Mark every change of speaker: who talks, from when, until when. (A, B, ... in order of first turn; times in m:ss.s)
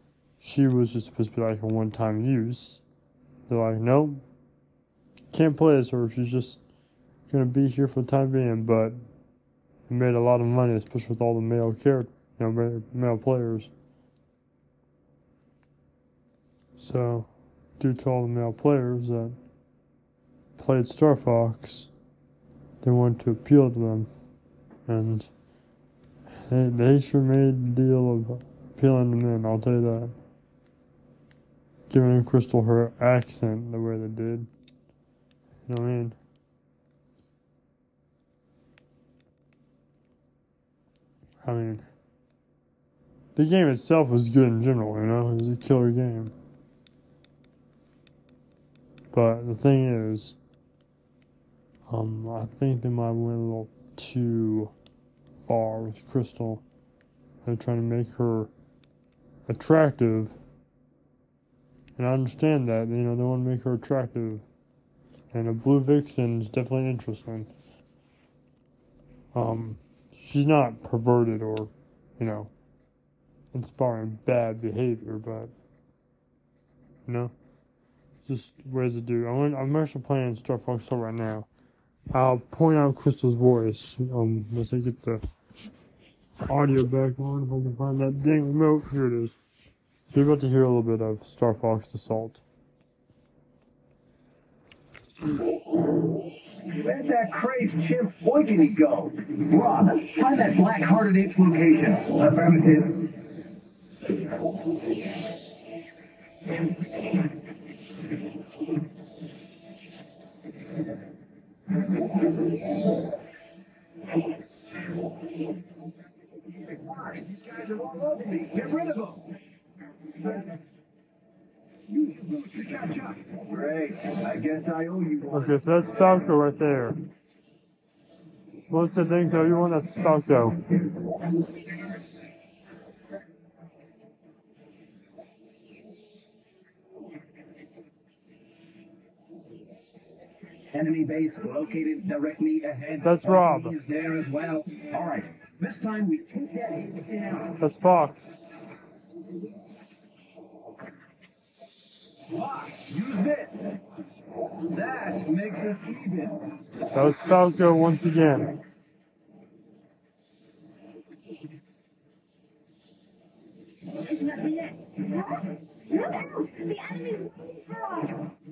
0:00.4-0:02.8 A
0:03.5-0:04.2 A
0:05.3-0:06.6 A
0:07.3-0:09.0 A
0:09.9-0:13.7 A
0:16.8-0:19.4 A
0:20.6-0:21.9 A
0:22.8-0:24.1 A
0:24.9-0:25.3 A
0:26.4-0:30.2 A
0:31.9-0:34.5 A
0:35.7-0:36.2 A
0:41.4-0:41.8 A
0:43.4-0:46.3 A
0:49.1-0:50.4 A
0:51.9-0:54.7 A
0:55.4-0:56.6 A
0:57.4-0:58.5 A
0:59.5-1:00.4 A
1:02.0-1:04.4 A
1:05.3-1:07.5 A
1:09.3-1:12.5 A
1:13.5-1:15.5 A
1:17.1-1:17.3 A
1:18.2-1:21.5 A
1:22.1-1:25.2 A
1:26.4-1:29.4 A
1:30.1-1:32.4 A
1:36.8-1:43.0 B
1:56.7-1:59.2 B
2:01.9-2:05.5 B
2:05.3-2:07.0 A
2:08.7-2:10.6 A
2:20.7-2:27.6 B
2:23.0-2:23.8 A
2:27.6-2:28.5 A
2:32.3-2:33.7 B
2:34.7-2:36.4 B
2:36.9-2:38.5 A
2:44.0-2:48.2 C